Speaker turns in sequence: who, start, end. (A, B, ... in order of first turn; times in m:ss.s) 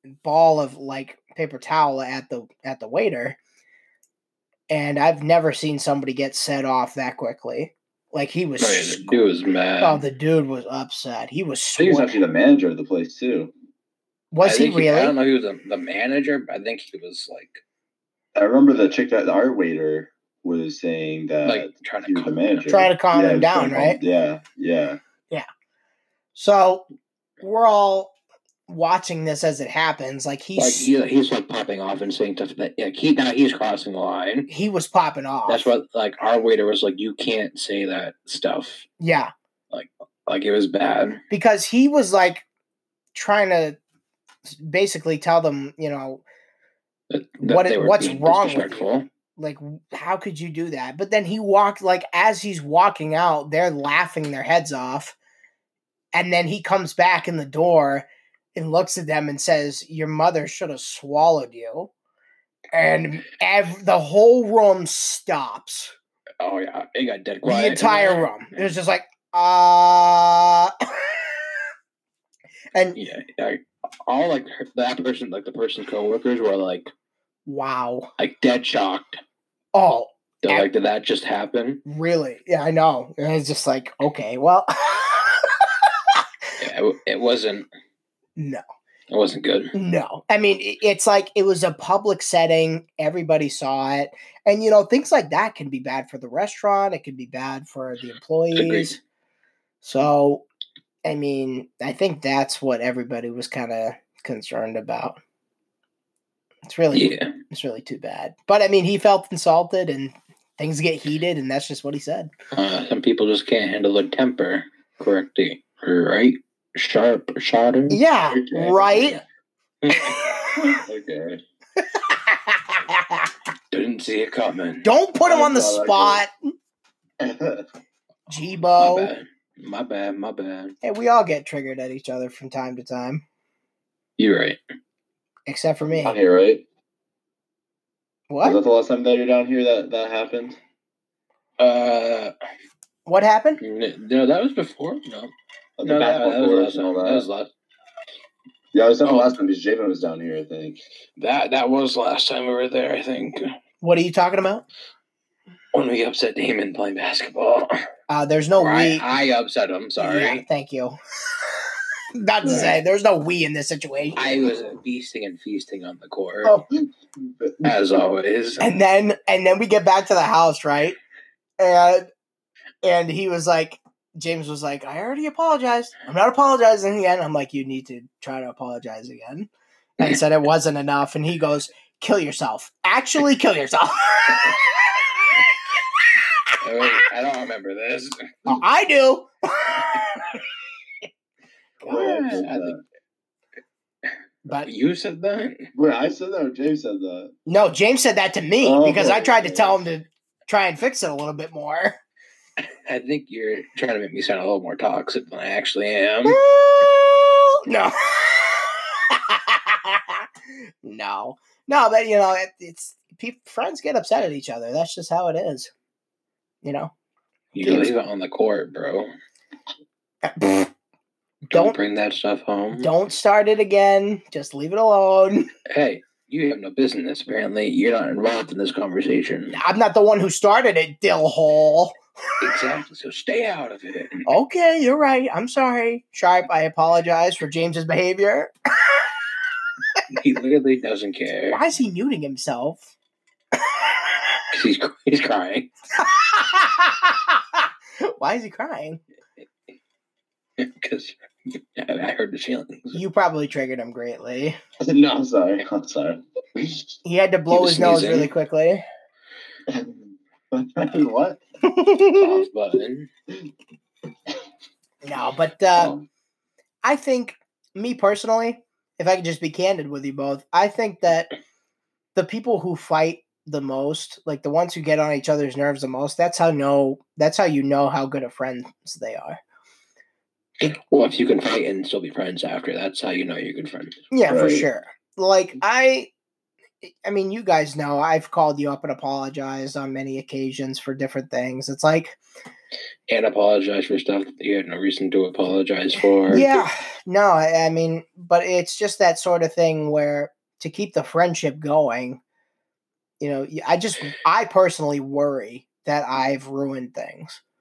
0:00.2-0:03.4 A
0:04.7-0:09.2 A
0:08.6-0:10.0 B
0:09.8-0:12.2 A
0:11.8-0:13.5 C
0:14.3-0:15.1 A
0:14.4-0:17.6 B
0:18.3-0:25.0 C
0:21.4-0:22.7 B
0:22.7-0:24.0 A
0:26.3-0:26.8 A
0:27.4-0:28.1 A
0:28.7-0:30.9 A
0:30.6-0:34.5 B
0:34.5-0:35.7 A
0:35.5-0:38.9 B
0:39.0-0:39.3 A
0:39.7-0:41.2 B
0:41.3-0:42.4 A
0:43.1-0:43.8 A
0:44.5-0:46.2 A
0:47.1-0:49.1 B
0:47.4-0:55.2 A
0:56.1-1:01.9 A
1:02.7-1:05.9 A
1:06.4-1:08.7 B
1:07.4-1:11.5 A
1:13.0-1:16.9 B
1:17.4-1:18.1 A
1:18.2-1:19.2 B
1:19.7-1:20.7 A
1:20.4-1:21.8 B
1:21.8-1:26.2 A
1:26.6-1:27.7 B
1:28.4-1:28.6 A
1:29.1-1:29.7 B
1:29.7-1:39.0 A
1:38.5-1:38.9 B
1:39.8-1:40.4 A
1:41.0-1:45.2 A
1:46.6-1:52.3 A
1:46.9-1:47.3 B
1:52.5-1:58.0 B
1:57.9-1:59.2 A
1:58.3-1:59.2 C
1:59.8-2:00.2 B
2:00.5-2:01.4 C
2:01.9-2:03.3 A
2:03.7-2:04.9 B
2:04.8-2:06.3 A
2:05.2-2:06.2 C
2:07.2-2:07.6 C
2:08.3-2:09.1 A
2:08.8-2:10.7 B
2:10.8-2:13.2 A
2:14.2-2:14.6 B
2:15.5-2:16.2 A
2:15.9-2:16.6 C
2:18.3-2:18.6 A
2:18.4-2:20.6 C
2:21.6-2:22.3 B
2:23.0-2:23.6 A
2:23.6-2:25.3 B
2:25.8-2:27.3 C
2:25.8-2:27.5 B
2:28.7-2:30.8 C
2:29.0-2:29.3 B
2:31.2-2:33.5 B
2:33.8-2:34.6 A
2:35.7-2:37.7 B
2:38.1-2:39.0 A
2:38.6-2:40.4 B
2:40.0-2:41.0 A
2:42.2-2:44.4 A
2:42.4-2:42.7 C
2:44.2-2:46.5 B
2:46.7-2:47.7 C
2:47.6-2:48.7 B
2:48.6-2:51.0 A
2:51.6-2:52.1 A
2:52.8-3:07.0 A
3:06.6-3:08.4 B
3:08.4-3:10.4 A
3:11.8-3:12.4 A
3:11.8-3:12.8 C
3:11.8-3:12.8 B
3:14.6-3:15.7 B
3:15.7-3:17.3 C
3:17.5-3:22.0 A
3:18.6-3:19.8 C
3:22.8-3:26.4 B
3:26.2-3:30.3 A
3:30.8-3:35.7 A
3:36.6-3:36.9 A
3:37.5-3:39.1 B
3:37.6-3:37.9 A
3:40.2-3:40.7 A
3:41.5-3:41.8 A
3:41.5-3:42.9 B
3:42.7-3:45.5 A
3:45.7-3:49.6 B
3:49.5-3:52.0 A
3:52.4-3:54.3 B
3:54.2-3:59.1 A
4:00.1-4:01.6 B
4:01.5-4:02.9 A
4:03.7-4:04.2 A
4:04.5-4:05.7 B
4:06.0-4:09.0 A
4:10.6-4:11.2 B
4:11.7-4:13.0 B
4:12.9-4:14.6 A
4:14.8-4:16.9 C
4:17.0-4:18.8 A
4:17.5-4:18.3 B
4:19.7-4:21.4 C
4:21.6-4:22.4 A
4:22.2-4:23.1 B
4:25.0-4:25.9 A
4:25.7-4:26.0 C
4:26.8-4:31.3 A
4:32.1-4:39.4 A
4:40.6-4:44.0 B
4:44.1-4:46.1 A
4:44.3-4:44.7 C
4:46.8-4:52.2 A
4:53.1-4:56.6 B
4:56.3-5:02.2 A
5:03.2-5:07.4 A